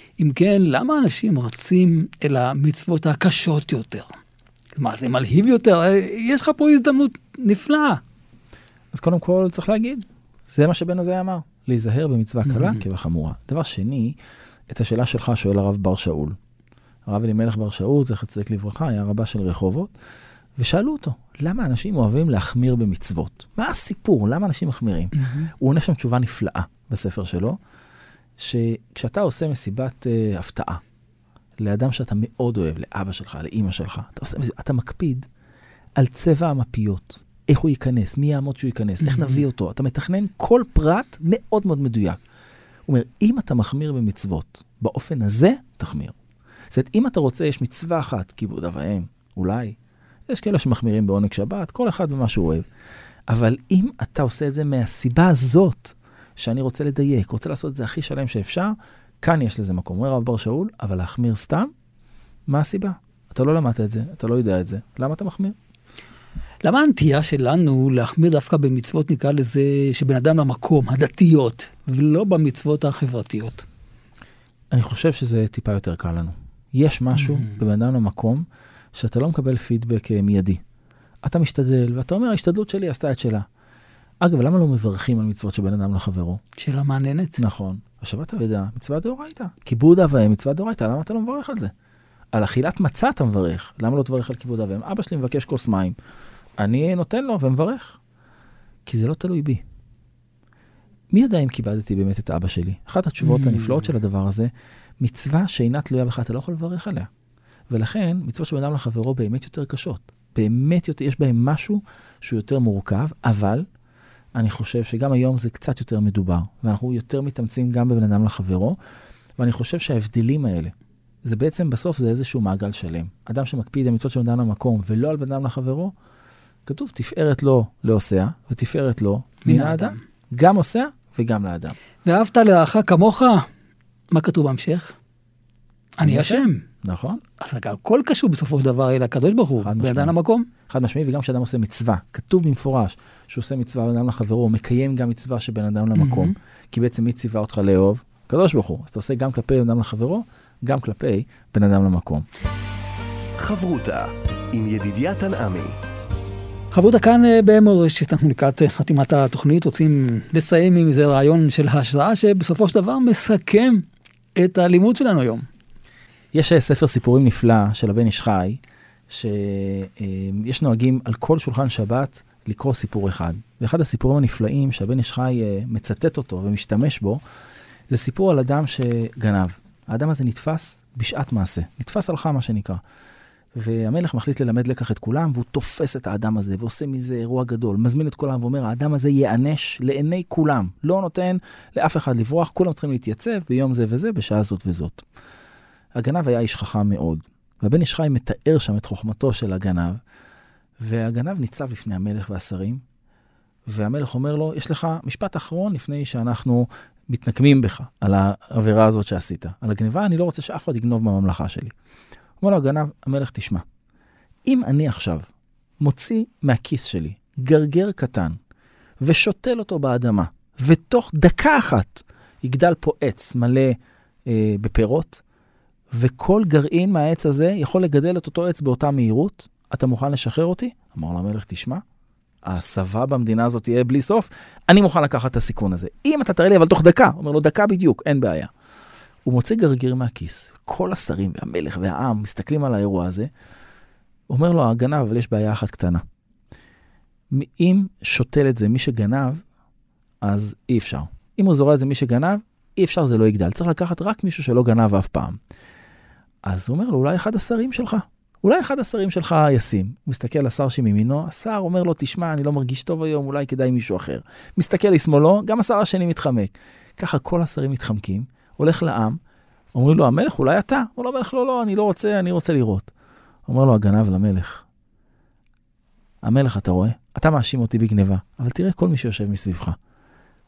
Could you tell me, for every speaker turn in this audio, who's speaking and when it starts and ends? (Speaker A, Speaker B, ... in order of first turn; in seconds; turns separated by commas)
Speaker A: 0.2-4.1, Speaker A: 4.8-8.0, Speaker B: 8.9-14.2, Speaker A: 12.4-12.8, Speaker B: 14.7-16.4, Speaker B: 17.1-19.9, Speaker B: 20.6-27.6, Speaker A: 25.1-25.5, Speaker B: 28.4-30.8, Speaker B: 31.6-35.3, Speaker B: 36.0-42.2, Speaker A: 39.0-39.4, Speaker B: 42.9-46.1, Speaker B: 46.7-49.8, Speaker B: 50.3-52.6, Speaker B: 53.3-61.7, Speaker B: 62.5-65.5, Speaker A: 66.6-73.7, Speaker B: 74.7-80.6, Speaker A: 77.1-77.6, Speaker B: 81.2-83.5, Speaker B: 84.2-86.4, Speaker A: 86.6-87.4, Speaker B: 87.4-91.7, Speaker B: 92.3-96.0, Speaker B: 96.6-98.0, Speaker B: 98.8-99.6, Speaker B: 101.1-107.1, Speaker A: 103.2-103.8, Speaker B: 107.7-113.7, Speaker B: 114.3-118.8, Speaker B: 119.4-120.7, Speaker B: 121.2-125.9, Speaker B: 126.7-131.7, Speaker A: 129.4-130.0, Speaker A: 132.0-133.5, Speaker A: 134.1-134.9, Speaker A: 136.0-136.6, Speaker B: 136.0-137.2, Speaker A: 137.4-140.5, Speaker B: 139.6-140.1, Speaker B: 140.7-152.2, Speaker A: 145.9-146.3, Speaker C: 153.4-155.8, Speaker A: 156.7-163.8, Speaker A: 164.3-165.4, Speaker B: 166.3-177.2, Speaker B: 177.9-182.8, Speaker B: 183.5-195.1, Speaker B: 195.9-200.0, Speaker B: 200.8-202.8, Speaker B: 203.7-211.7, Speaker B: 212.4-213.6, Speaker B: 214.4-215.2, Speaker B: 215.8-218.4, Speaker B: 219.0-225.2, Speaker B: 225.9-231.8, Speaker B: 232.4-238.5, Speaker B: 239.2-243.3, Speaker B: 244.3-246.0, Speaker B: 247.3-249.4, Speaker B: 250.2-255.4, Speaker B: 256.4-269.2, Speaker B: 269.7-272.9, Speaker B: 273.5-274.6, Speaker B: 276.2-279.8